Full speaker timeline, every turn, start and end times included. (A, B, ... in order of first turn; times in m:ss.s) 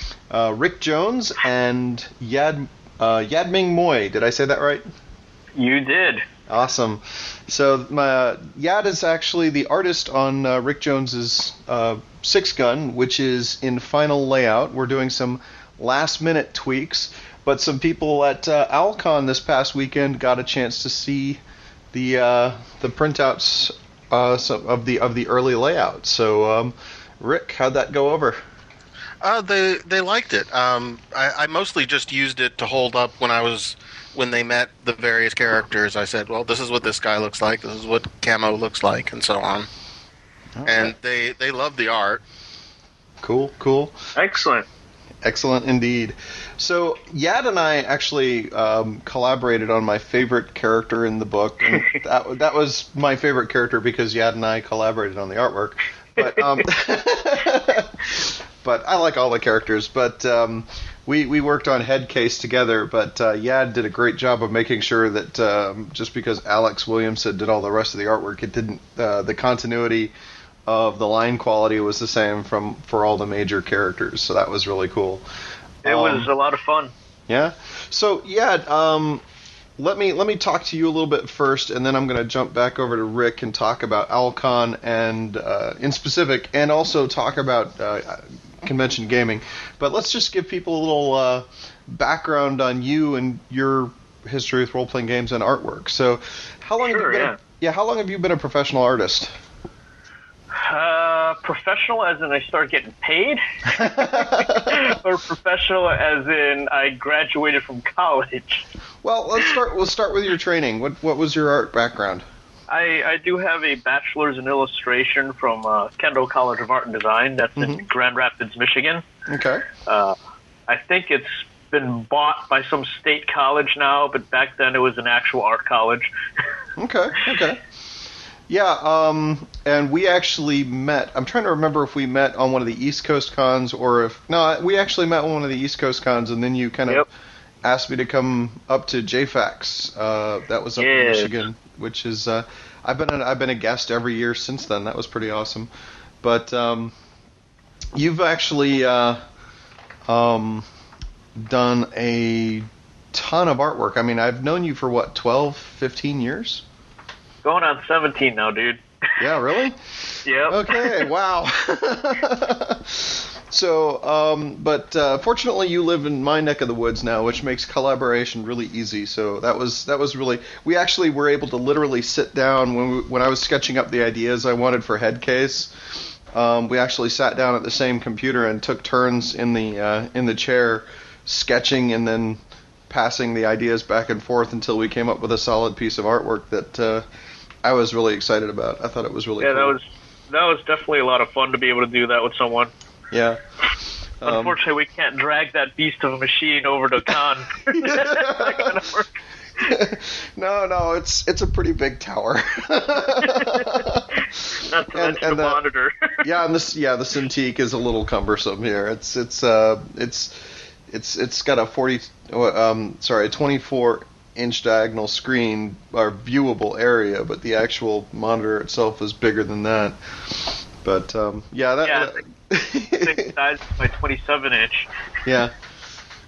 0:00.3-0:04.8 A
0:05.6-0:06.3 B
0:06.5-0:21.4 A
0:21.9-0:28.4 A
0:29.2-0:39.7 C
0:40.6-0:40.9 A
0:40.6-0:42.2 C
0:43.2-0:44.1 A
0:44.2-0:44.7 B
0:45.2-1:10.1 A
0:56.2-0:56.6 B
1:10.7-1:15.2 A
1:15.8-1:16.3 A
1:15.8-1:16.9 B
1:17.3-1:19.2 A
1:19.8-1:39.3 A
1:36.8-1:37.4 B
1:40.6-1:48.6 B
1:43.7-1:44.9 A
1:49.0-1:52.2 A
1:52.7-1:59.0 B
1:57.6-1:57.8 A
1:59.3-1:59.7 A
1:59.9-2:00.2 B
2:00.7-2:06.1 B
2:06.8-2:07.6 A
2:08.5-2:17.1 A
2:17.6-2:25.7 A
2:20.8-2:21.4 B
2:26.2-2:26.9 A
2:28.0-2:29.2 A
2:30.1-2:30.6 A
2:31.4-2:36.6 A
2:37.4-2:38.8 B
2:39.2-2:55.7 A
2:40.2-2:41.1 B
2:56.3-3:07.0 A
3:07.6-3:09.8 A
3:09.4-3:12.7 B
3:13.1-3:13.4 A
3:14.2-3:14.6 A
3:14.2-3:19.8 B
3:17.7-3:18.8 A
3:19.6-3:25.6 A
3:23.1-3:23.8 B
3:24.5-3:26.2 B
3:26.2-3:43.3 A
3:41.8-3:42.2 B
3:42.9-3:44.9 B
3:45.3-3:45.6 A